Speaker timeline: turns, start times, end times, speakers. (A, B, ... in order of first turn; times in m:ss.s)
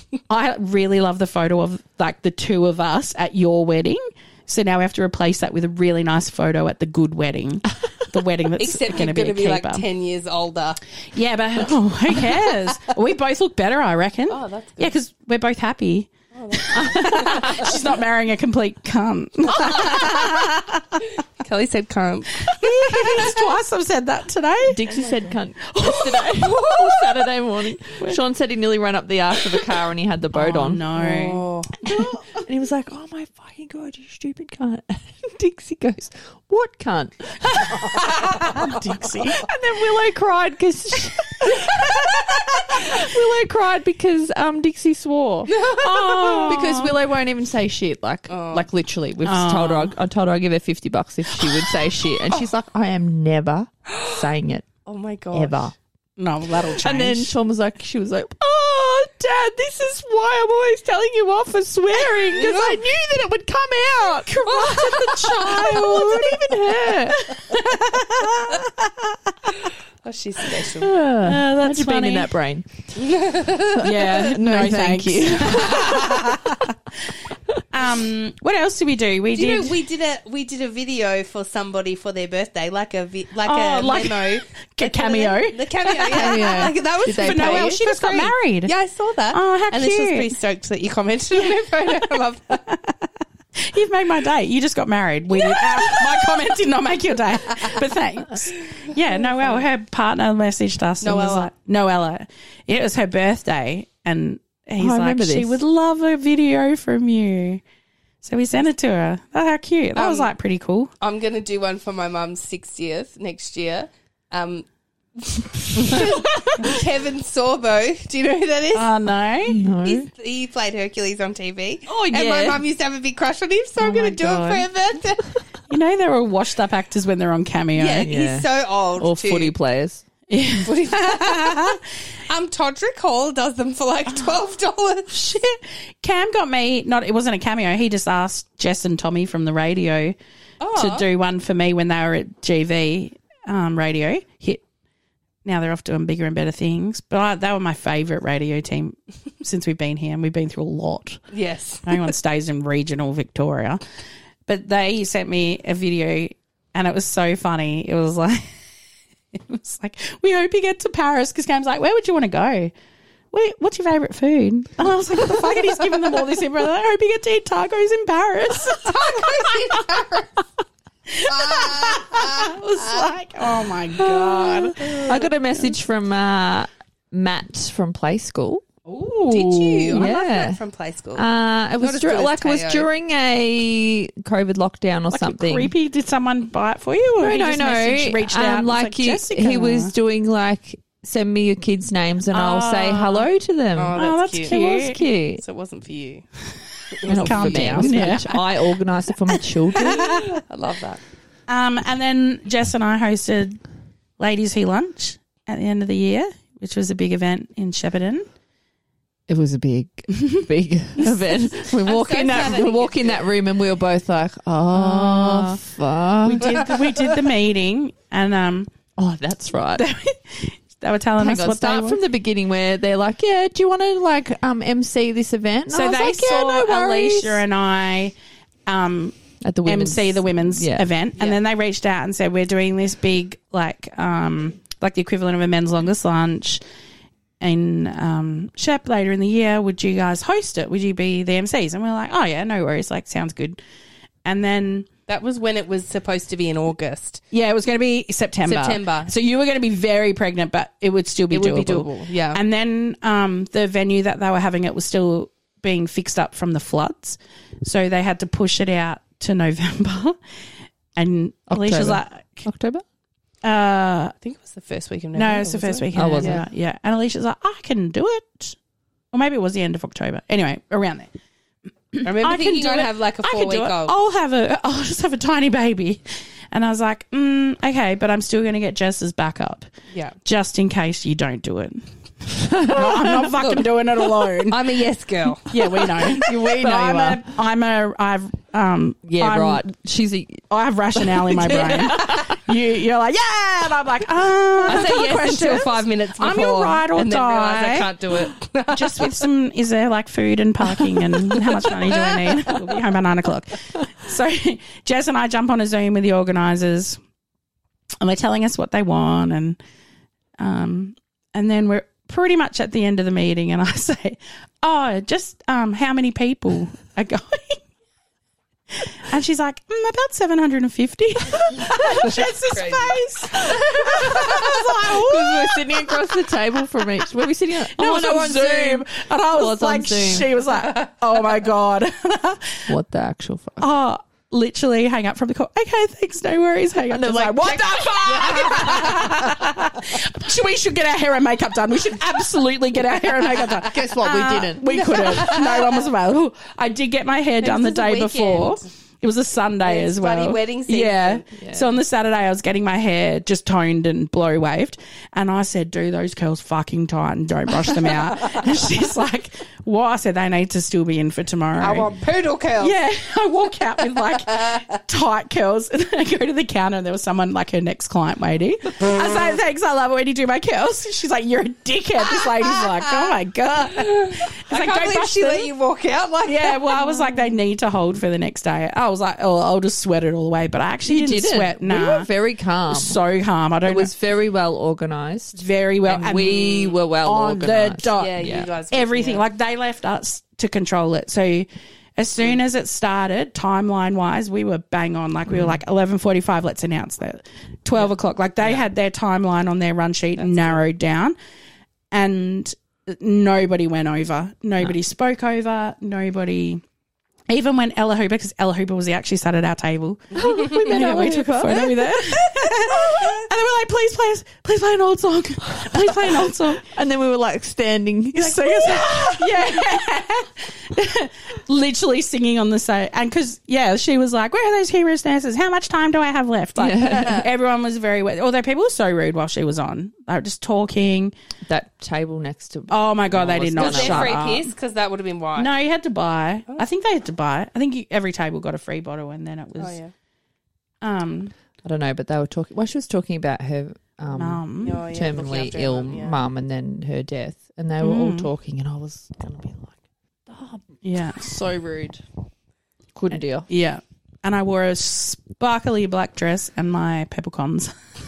0:00.3-0:09.8 A
0:08.6-0:10.8 B
0:11.1-0:21.0 A
0:14.3-0:14.9 B
0:16.3-0:17.8 B
0:19.5-0:20.2 B
0:21.4-0:23.5 B
0:22.4-0:24.9 A
0:24.6-0:30.9 C
0:25.7-0:26.6 A
0:26.4-0:26.9 B
0:27.9-0:28.2 A
0:30.3-0:32.1 A
0:30.9-0:31.8 B
0:31.8-0:38.6 C
0:37.4-0:39.5 A
0:38.0-0:38.7 B
0:39.4-0:45.7 C
0:45.5-0:46.6 B
0:45.7-0:47.0 A
0:46.4-0:54.7 C
0:48.3-0:48.7 B
0:49.2-0:49.9 A
0:53.9-0:54.2 B
0:54.8-0:55.7 B
0:55.3-0:55.7 C
0:56.2-0:57.3 A
0:56.6-1:07.3 C
1:02.3-1:02.8 B
1:04.3-1:09.1 A
1:04.4-1:05.8 B
1:09.6-1:10.9 B
1:10.7-1:12.7 C
1:11.2-1:12.3 A
1:12.9-1:13.9 B
1:13.7-1:16.6 C
1:13.8-1:16.7 A
1:17.7-1:19.8 A
1:19.3-1:32.7 B
1:23.4-1:28.7 A
1:26.1-1:27.8 C
1:29.3-1:30.3 A
1:33.6-1:47.6 A
1:35.3-1:36.3 B
1:41.0-1:41.5 B
1:44.8-1:45.6 C
1:48.2-1:50.9 A
1:50.0-1:50.3 B
1:51.0-1:58.9 B
1:58.7-1:59.6 A
1:59.5-2:00.1 C
1:59.8-2:05.4 B
2:01.9-2:02.6 C
2:03.8-2:04.6 A
2:05.7-2:08.1 A
2:07.7-2:09.5 B
2:08.0-2:10.0 C
2:10.3-2:11.8 A
2:10.6-2:15.1 B
2:15.1-2:20.2 A
2:20.6-2:21.0 B
2:20.7-2:24.6 A
2:25.4-2:31.2 A
2:31.3-2:32.1 B
2:31.8-2:33.8 A
2:34.5-2:38.5 A
2:39.3-2:42.7 A
2:43.3-2:49.8 A
2:48.7-2:50.4 B
2:51.1-2:55.7 A
2:51.2-2:53.1 B
2:54.0-2:58.7 C
2:54.8-2:55.1 B
2:58.9-3:00.1 A
2:59.3-3:01.3 B
2:59.3-3:00.6 C
3:01.1-3:05.7 C
3:01.8-3:02.9 B
3:05.1-3:09.9 A
3:07.2-3:15.4 C
3:12.3-3:13.3 A
3:13.7-3:14.6 B
3:14.0-3:15.0 A
3:15.4-3:16.2 B
3:16.9-3:18.2 B
3:17.0-3:18.6 A
3:17.0-3:20.2 C
3:19.7-3:21.0 B
3:19.8-3:20.3 A
3:21.5-3:23.6 A
3:24.2-3:28.2 A
3:29.3-3:36.7 C
3:30.1-3:30.4 A
3:31.0-3:31.4 A
3:31.6-3:33.2 B
3:34.7-3:35.6 A
3:36.2-3:38.7 A
3:39.0-3:39.8 C
3:39.8-3:42.0 A
3:41.2-3:47.4 C
3:45.7-3:48.1 A
3:48.6-3:56.6 A
3:49.4-3:50.9 C
3:57.4-4:03.6 A
4:04.2-4:04.9 A
4:05.1-4:07.2 B
4:07.3-4:20.2 A
4:08.4-4:09.1 B
4:11.3-4:12.4 B
4:21.0-4:22.4 A
4:21.5-4:22.8 C
4:23.4-4:24.1 A
4:24.2-4:26.4 B
4:25.1-4:28.6 A
4:25.9-4:26.5 C
4:29.1-4:31.1 A
4:31.9-4:39.7 A
4:32.0-4:33.9 B
4:39.9-4:40.2 B
4:40.2-4:44.7 A
4:42.4-4:43.3 C
4:43.4-4:43.7 B
4:44.4-4:45.8 B
4:45.4-4:49.6 A
4:46.0-4:47.3 C
4:49.0-4:50.4 C
4:50.5-4:57.9 A
4:50.9-4:52.4 C
4:51.5-4:52.0 B
4:54.6-4:59.2 B
4:58.7-5:07.0 A
5:01.4-5:02.5 B
5:08.0-5:09.6 A
5:10.4-5:17.6 A
5:18.7-5:26.0 A
5:21.8-5:24.6 B
5:24.1-5:30.3 C
5:27.6-5:32.7 A
5:30.5-5:30.8 B
5:32.7-5:33.7 C
5:33.6-6:01.9 A
5:36.9-5:39.5 C
5:38.2-5:39.0 B
5:43.5-5:45.2 C
5:44.7-5:45.8 B
5:47.4-5:48.7 B
5:49.6-5:51.2 B
5:51.4-5:51.7 C
6:01.6-6:02.8 B
6:02.6-6:15.5 A
6:03.9-6:04.7 B
6:12.2-6:13.1 B
6:13.7-6:17.2 B
6:16.2-6:22.1 A
6:20.8-6:23.0 C
6:22.7-6:23.9 A
6:23.6-6:28.5 C
6:25.4-6:41.1 A
6:28.0-6:29.2 B
6:35.3-6:35.6 C
6:41.9-6:46.6 A
6:47.3-6:56.6 A
6:50.1-6:53.2 C
6:50.2-6:50.6 B
6:55.6-6:59.8 C
6:58.1-7:11.1 A
7:06.6-7:07.2 C
7:06.9-7:07.2 B
7:11.4-7:14.2 C
7:12.7-7:14.5 A
7:13.6-7:15.5 B
7:15.4-7:19.8 A
7:19.6-7:19.9 B
7:20.8-7:21.3 A
7:21.6-7:29.8 C
7:24.1-7:24.8 A
7:24.6-7:26.2 B
7:27.8-7:28.3 A
7:30.3-7:30.6 C
7:30.8-7:31.4 A
7:31.2-7:32.0 C
7:32.9-7:33.5 C
7:33.5-7:37.7 A